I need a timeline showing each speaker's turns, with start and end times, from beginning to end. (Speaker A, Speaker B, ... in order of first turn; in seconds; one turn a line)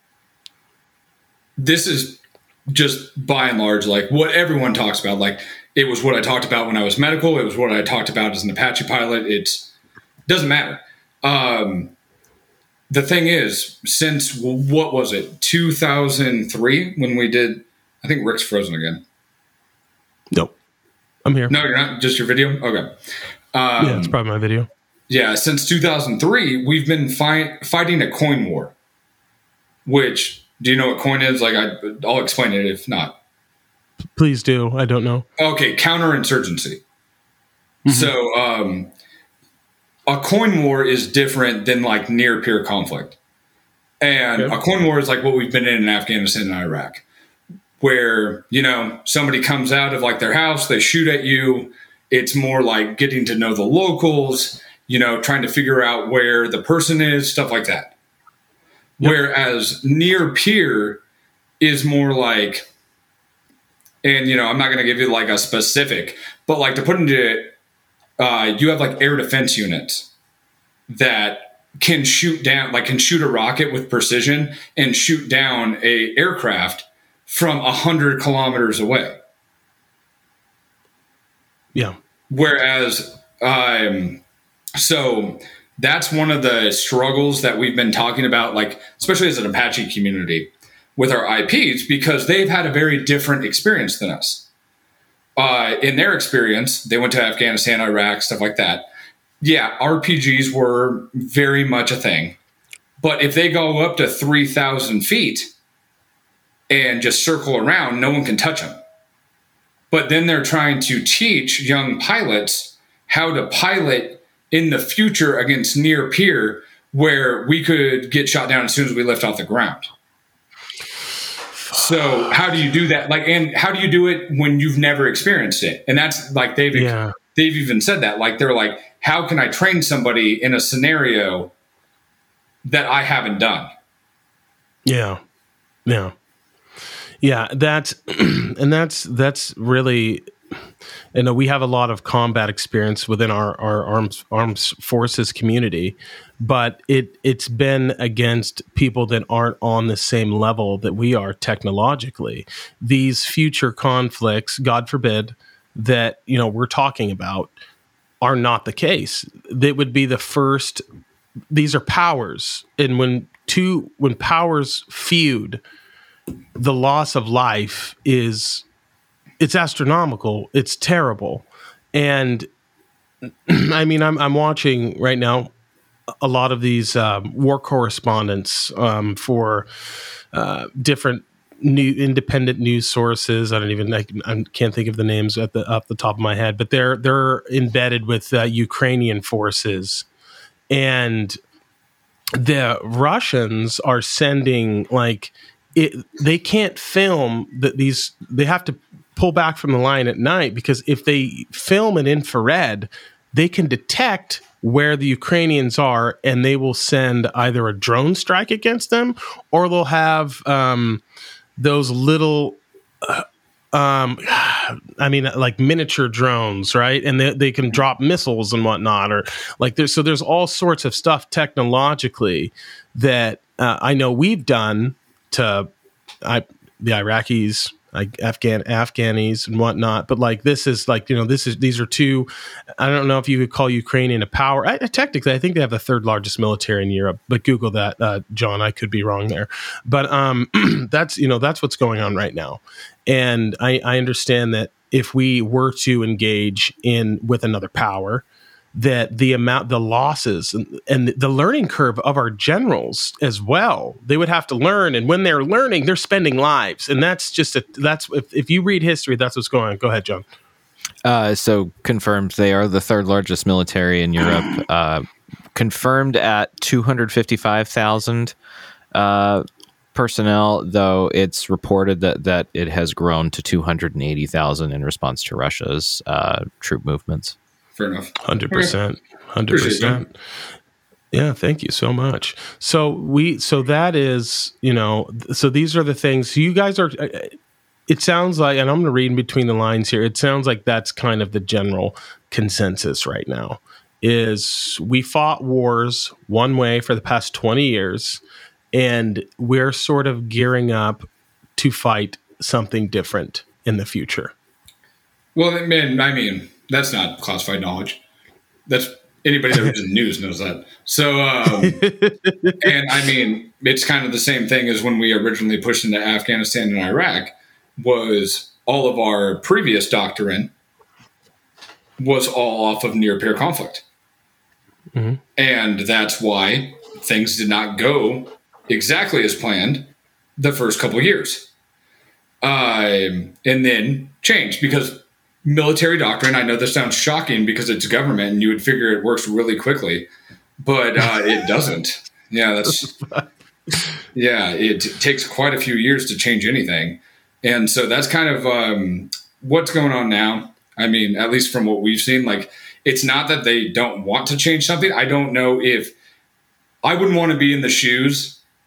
Speaker A: 1.6-9.7
Speaker A: 10.3-11.9
Speaker A: 12.9-19.0
Speaker B: 21.2-21.5
Speaker A: 21.5-22.9
Speaker A: 23.5-24.1
Speaker B: 23.8-24.7
Speaker A: 25.1-28.7
Speaker A: 29.9-33.1
Speaker B: 34.1-35.2
Speaker A: 35.4-36.8
Speaker B: 37.8-38.1
Speaker A: 37.9-38.9
Speaker A: 40.1-43.2
Speaker A: 44.0-47.0
Speaker A: 47.8-57.9
Speaker A: 59.0-61.0
Speaker A: 61.6-62.6
Speaker A: 64.0-67.5
Speaker A: 68.2-70.1
Speaker A: 70.9-79.2
Speaker A: 82.3-84.2
Speaker A: 84.8-94.5
Speaker A: 95.4-98.8
Speaker A: 99.4-102.3
Speaker A: 103.0-105.5
Speaker A: 106.7-108.8
Speaker A: 109.9-119.9
Speaker B: 121.5-122.4
Speaker A: 121.7-131.5
Speaker B: 126.7-127.1
Speaker A: 132.6-133.7
Speaker B: 134.8-135.2
Speaker B: 135.8-136.1
Speaker B: 137.2-140.3
Speaker B: 141.1-157.5
Speaker B: 158.2-160.8
Speaker B: 161.5-165.6
Speaker B: 166.6-168.6
Speaker B: 169.4-172.5
Speaker B: 173.4-175.5
Speaker B: 176.2-179.7
Speaker B: 180.3-190.1
Speaker B: 190.7-191.4
Speaker B: 192.4-211.0
Speaker B: 211.6-225.7
Speaker B: 226.2-260.2
Speaker C: 261.0-268.3
Speaker C: 268.9-269.4
Speaker C: 269.9-277.4
Speaker A: 277.8-278.7
Speaker B: 278.2-280.1
Speaker A: 279.5-280.0
Speaker B: 281.1-287.3
Speaker B: 287.9-298.2
Speaker B: 298.7-304.3
Speaker A: 305.3-308.0
Speaker A: 308.7-311.8
Speaker B: 311.6-312.7
Speaker A: 312.6-320.5
Speaker A: 322.0-323.8
Speaker B: 324.9-325.2
Speaker A: 325.4-331.5
Speaker A: 332.4-340.1
Speaker A: 340.6-343.0
Speaker A: 344.1-355.9
Speaker A: 356.8-358.4